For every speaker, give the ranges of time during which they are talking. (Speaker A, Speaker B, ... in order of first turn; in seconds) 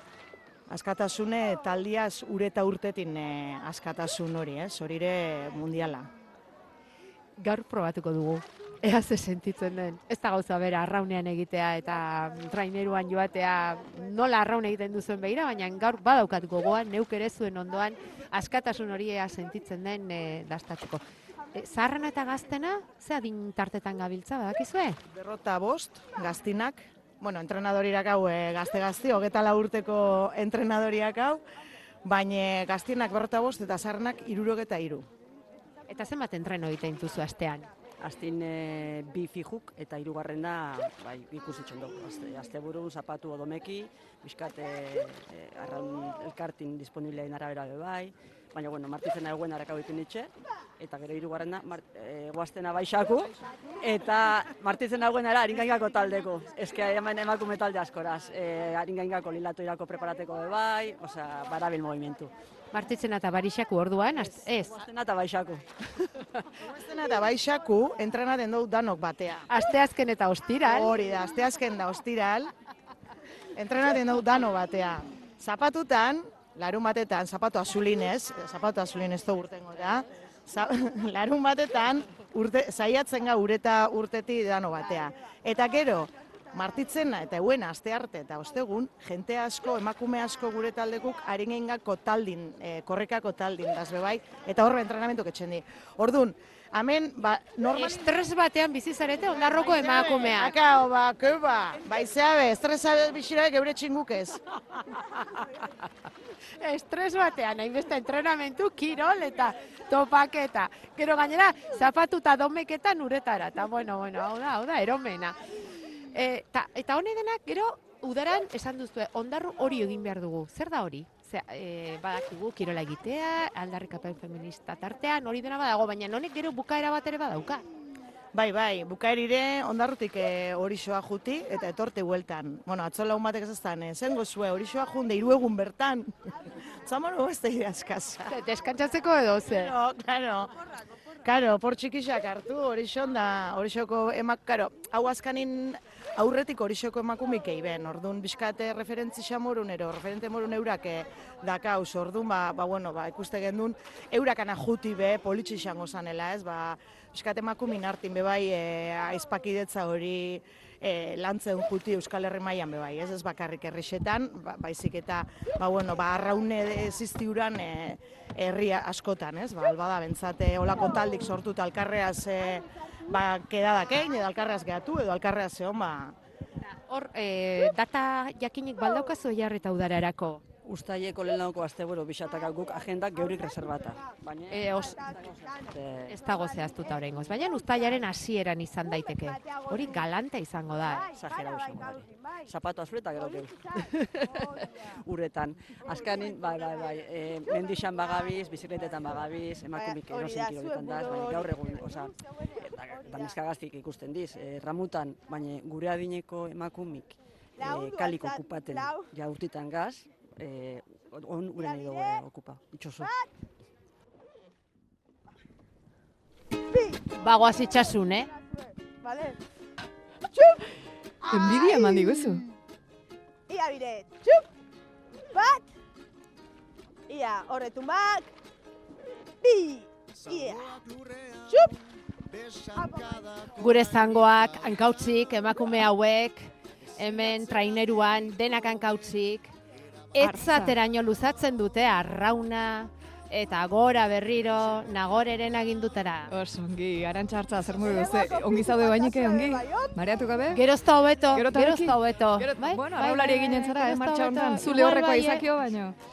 Speaker A: 0.7-6.1, 25.1-31.4, 32.0-35.0, 66.6-69.5, 70.7-72.5, 73.5-98.2, 99.3-104.4, 128.3-138.4, 139.5-140.6, 141.2-176.2
Speaker B: 7.4-25.0, 35.9-37.7, 62.7-64.8, 69.5-70.9, 97.7-100.5, 106.6-127.7, 138.3-139.8, 176.6-180.4, 184.5-185.0, 186.1-191.1, 217.1-218.3, 233.5-239.5, 240.1-246.3, 250.5-255.5
Speaker C: 38.0-62.3, 64.1-66.3, 180.7-186.2, 191.0-213.1
Speaker D: 191.4-192.1, 199.7-202.1, 202.9-203.3, 207.6-209.1, 211.6-212.2, 213.0-213.3, 216.7-219.4, 220.3-220.6, 221.2-222.1, 223.5-224.5, 225.3-225.7, 227.1-228.3, 229.4-230.8, 231.5-231.8, 232.7-233.4, 247.9-250.0
Speaker E: 221.3-222.4, 240.2-240.8, 246.3-250.6, 251.3-255.9